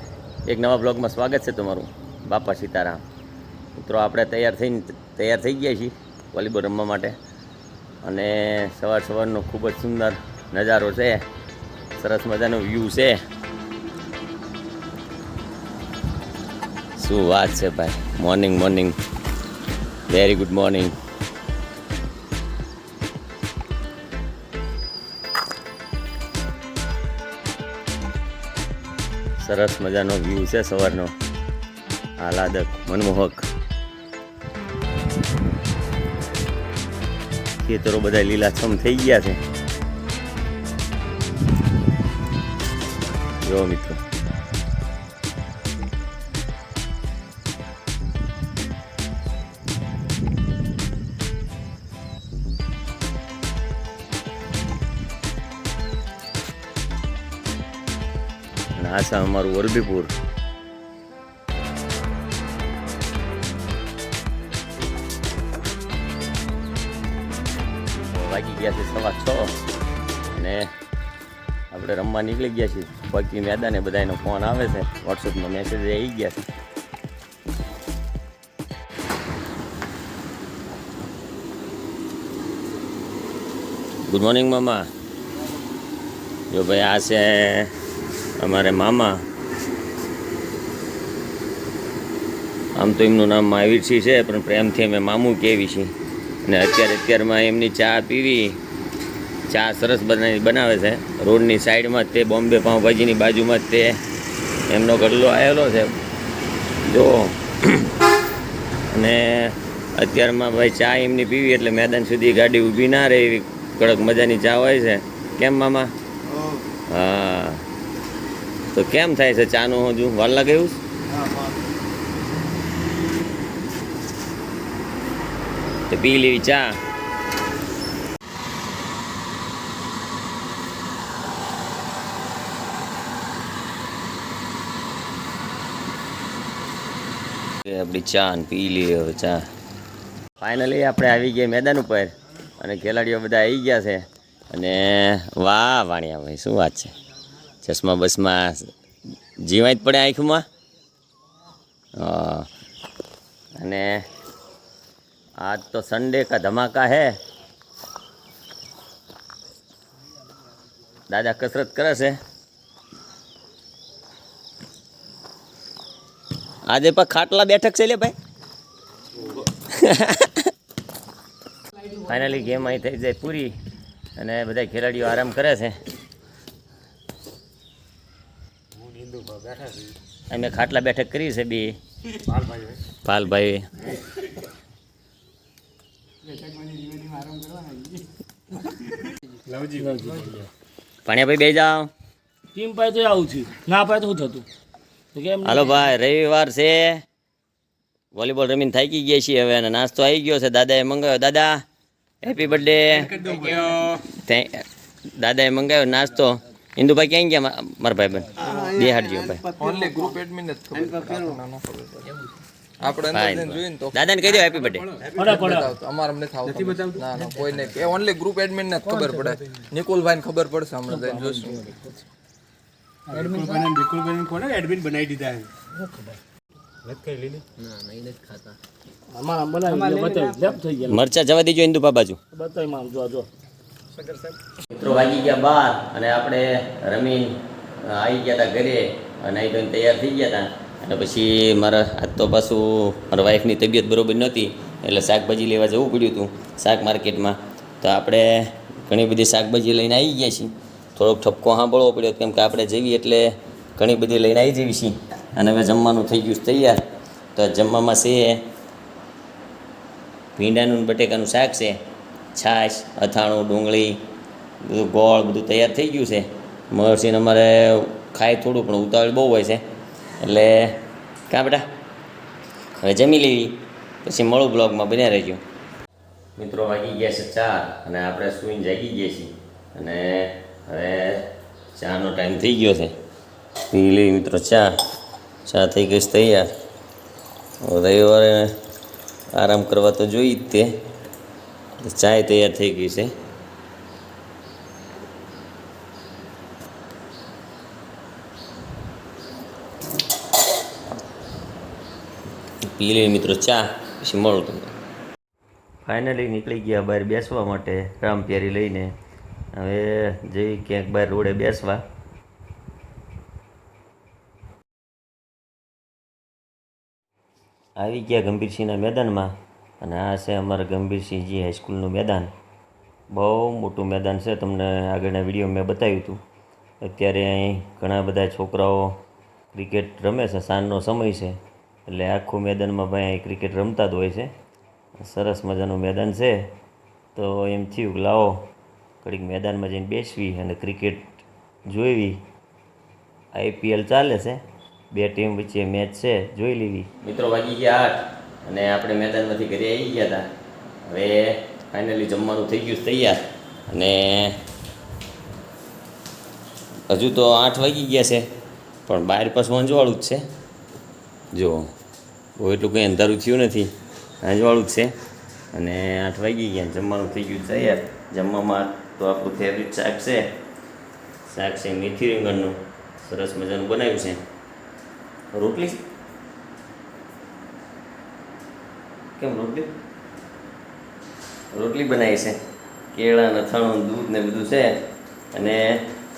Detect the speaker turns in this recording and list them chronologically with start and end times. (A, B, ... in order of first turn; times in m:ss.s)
0:00.5-0:03.0 A
0:03.8-0:07.2 A
0:08.0-0:11.3 A
0:12.0-0:13.2 A
0:17.0-0:19.0 A
0:20.1-0:21.0 A
0:29.4-0:31.1 A
0:32.2-0:33.5 A
0:37.6-0:39.4 A
0:43.4-0:44.0 A
0:58.8-1:00.1 A
1:08.1-1:09.5 A
1:10.3-1:10.7 A
1:11.7-1:16.4 A
1:24.1-1:24.9 A
1:26.5-1:27.7 A
1:28.4-1:29.2 A
1:32.8-1:35.9 A
1:36.4-1:38.6 A
1:39.5-1:44.0 A
1:44.7-1:46.0 A
1:46.8-1:47.9 A
1:48.9-1:55.9 A
1:56.9-1:57.6 A
1:58.7-2:00.8 A
2:05.9-2:06.8 A
2:17.6-2:19.4 A
2:20.4-2:26.9 A
2:27.5-2:28.7 A
2:29.4-2:30.4 A
2:32.0-2:32.5 A
2:33.6-2:34.0 A
2:35.4-2:37.2 A
2:41.1-2:42.2 A
2:46.7-2:48.2 A
2:49.3-2:50.5 A
2:51.9-2:53.5 A
2:54.2-2:55.8 A
2:58.8-2:59.9 B
3:00.3-3:01.8 A
3:02.3-3:02.7 B
3:03.0-3:03.7 A
3:09.5-3:10.2 B
3:09.8-3:10.5 C
3:11.0-3:11.9 A
3:12.6-3:14.4 C
3:15.1-3:15.8 C
3:15.4-3:17.0 A
3:18.1-3:21.6 A
3:22.2-3:29.5 A
3:23.0-3:24.0 B
3:28.4-3:28.8 B
3:29.4-3:29.9 B
3:29.5-3:32.0 D
3:32.8-3:34.0 D
3:33.1-3:34.9 A
3:34.8-3:35.4 B
3:35.2-3:41.7 D
3:35.2-3:35.7 C
3:36.5-3:37.2 B
3:40.9-3:42.0 C
3:43.1-3:45.5 B
3:46.8-3:47.5 B
3:49.2-3:51.0 C
3:50.8-3:52.2 A
3:52.3-3:53.3 C
3:54.7-4:16.8 A
4:17.4-4:18.4 A
4:20.4-4:21.8 A
4:22.3-4:24.0 A
4:24.6-4:29.6 A
4:30.2-4:31.7 A
4:32.8-4:35.4 A
4:36.4-4:42.9 A
4:43.7-4:44.7 A
4:45.5-4:46.5 A
4:47.6-4:48.6 A
4:49.3-4:50.8 A
4:51.8-4:53.1 A
5:02.6-5:04.7 A
5:05.9-5:08.9 A
5:09.5-5:11.8 A
5:17.8-5:22.3 A
5:23.1-5:26.2 A
5:26.8-5:29.0 A
5:29.5-5:34.3 A
5:35.0-5:36.5 A
5:37.2-5:38.4 A
5:39.0-5:42.2 A
5:43.3-5:44.4 A
5:44.9-5:50.3 A
5:50.9-5:54.4 A
5:56.9-5:58.3 A
5:58.9-6:00.2 A
6:01.3-6:01.7 A
6:02.4-6:03.7 A
6:04.2-6:04.9 A
6:05.5-6:10.3 A
6:11.3-6:14.2 A
6:15.3-6:15.8 A
6:19.2-6:19.7 A
6:21.5-6:22.4 A
6:22.9-6:24.8 A
6:25.3-6:25.8 A